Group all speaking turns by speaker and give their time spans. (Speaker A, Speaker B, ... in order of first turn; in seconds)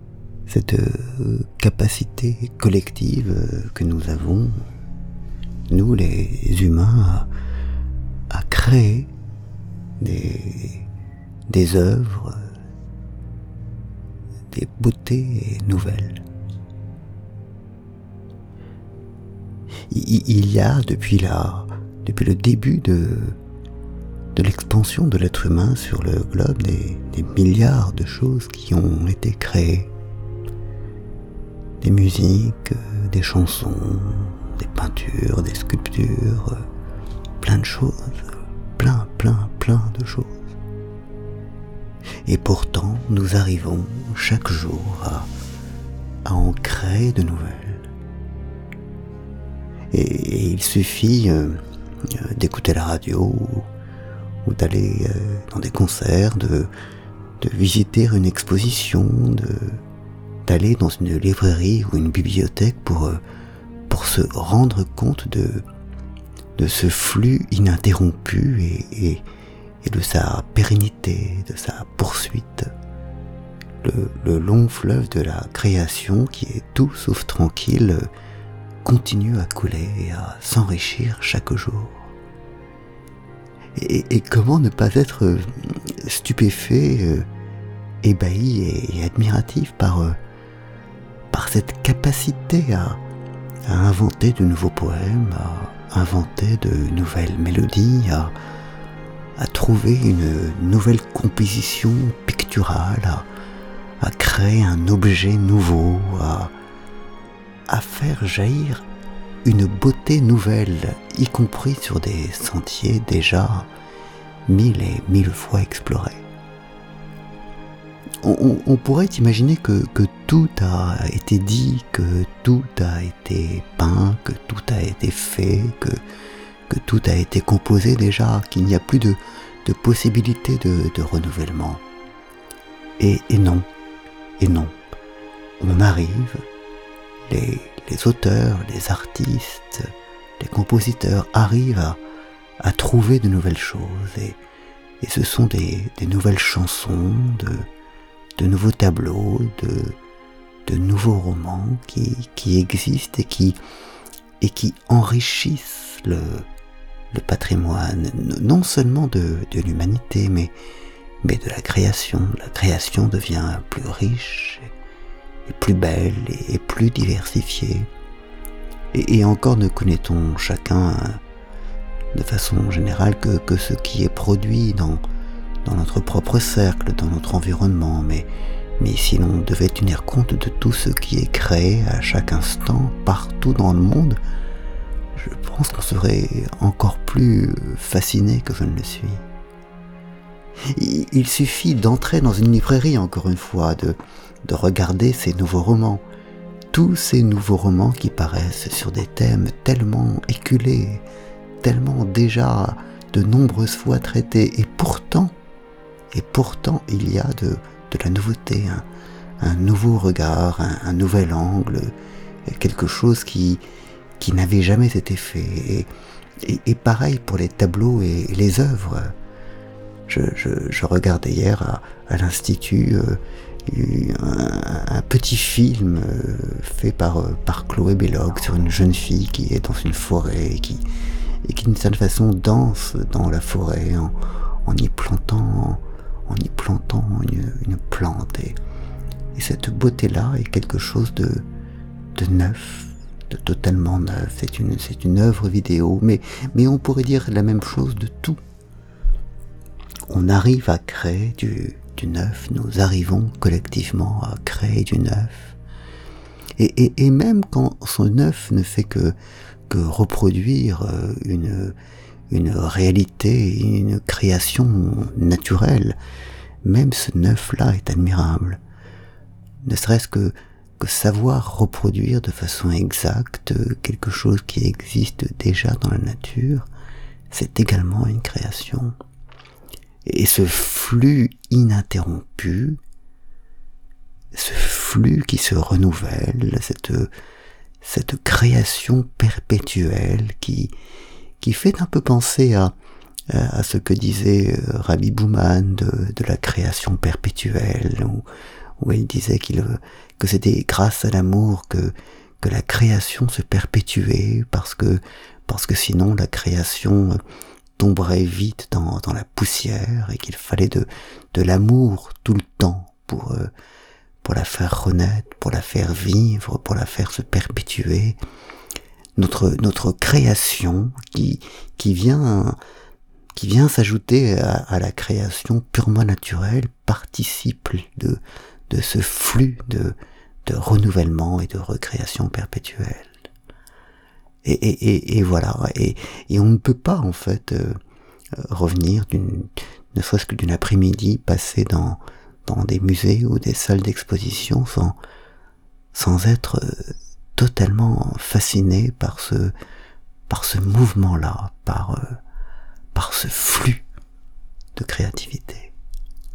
Speaker A: 0.5-4.6, 5.7-7.3, 8.3-9.1, 10.0-10.9, 11.5-12.5, 14.5-16.2, 19.9-23.4, 24.3-29.9, 31.8-36.6, 37.4-38.2, 38.8-40.4, 42.2-45.3, 46.2-47.9, 49.9-53.7, 54.4-56.7, 57.4-59.8, 60.5-63.2, 63.9-65.6, 66.6-69.2, 69.8-72.7, 73.8-78.1, 78.8-82.1, 83.8-87.2, 88.0-90.2, 91.3-93.0, 93.7-98.3, 99.3-103.3, 104.0-106.5, 107.7-108.8, 109.4-113.7, 114.5-116.2, 118.2-126.0, 126.7-131.8, 133.0-133.7, 134.4-134.8, 135.6-136.4, 137.3-142.0, 142.6-144.4, 145.0-147.7, 148.4-150.0, 150.7-153.6, 154.4-156.5, 157.1-160.5, 161.2-164.7, 165.4-167.9, 168.9-171.2, 172.1-175.0, 175.6-178.3, 178.8-184.2, 185.2-189.2, 190.7-196.0, 196.7-201.0, 201.6-205.3, 206.1-208.8, 209.4-211.9, 212.4-213.6, 214.2-215.9, 216.4-219.1, 220.1-230.8, 231.4-238.6, 239.3-241.4, 242.1-248.4, 250.1-255.6, 256.6-259.1, 259.7-261.7, 262.3-266.0, 266.6-268.6, 269.6-276.7, 277.3-279.0, 280.1-282.8, 284.3-287.1, 287.8-290.7, 291.4-292.7, 293.3-298.2, 298.8-307.2, 307.8-313.5, 314.2-318.2, 319.1-322.6, 323.3-333.1, 334.4-337.8, 338.4-345.0, 345.9-349.5, 350.3-352.2, 352.9-353.8, 354.8-355.7